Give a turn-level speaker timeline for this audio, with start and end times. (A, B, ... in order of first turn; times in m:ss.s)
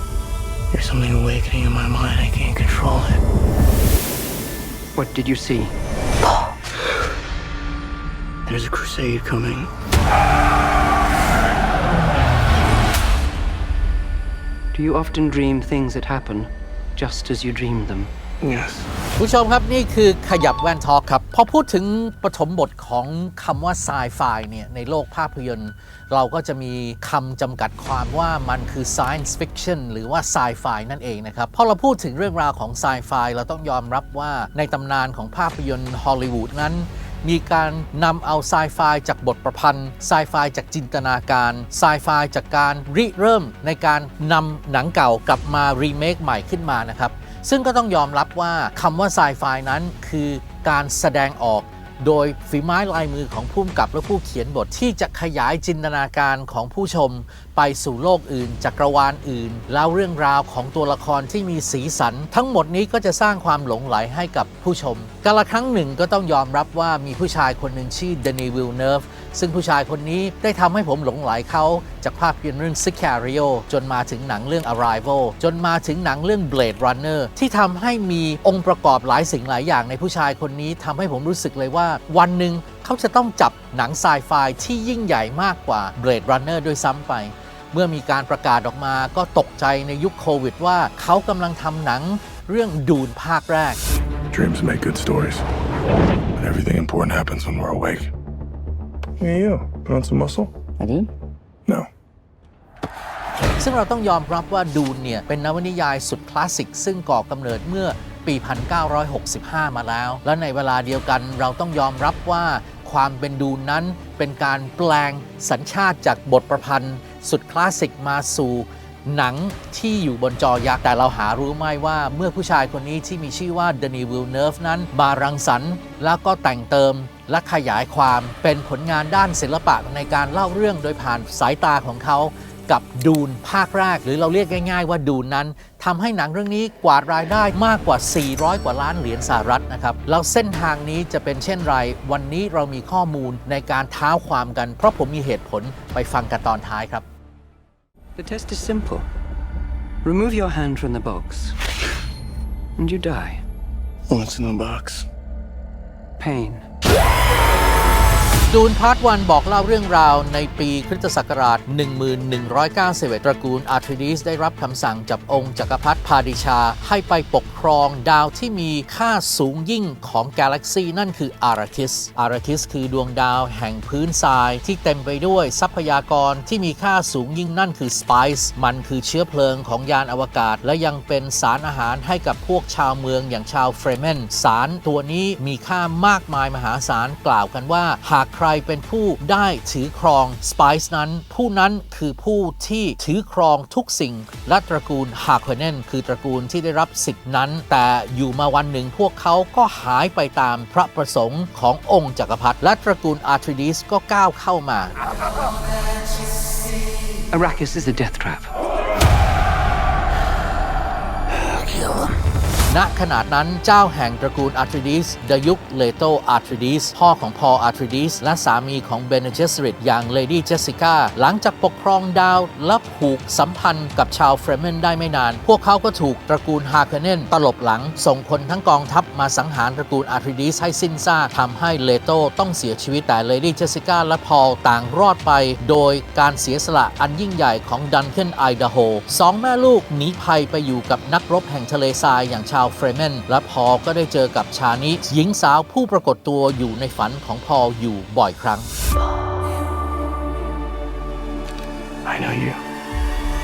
0:00.7-0:03.2 A
0:05.0-0:05.7 B
0:08.5-0:09.7 A
0:14.7-0:18.1 B
0:18.4-0:18.9 A
0:19.2-1:33.8 C
1:34.3-1:35.4 D
1:36.4-1:38.1 D
1:39.2-1:40.5 D
1:40.8-1:41.1 A
1:43.6-2:27.1 C
2:28.2-2:29.1 B
2:30.0-2:31.6 B
2:32.8-2:33.4 B
2:34.1-2:35.0 A
2:36.2-2:36.6 B
2:38.5-3:25.0 C
3:27.3-3:28.5 B
3:32.7-4:08.7 C
4:12.0-4:12.6 A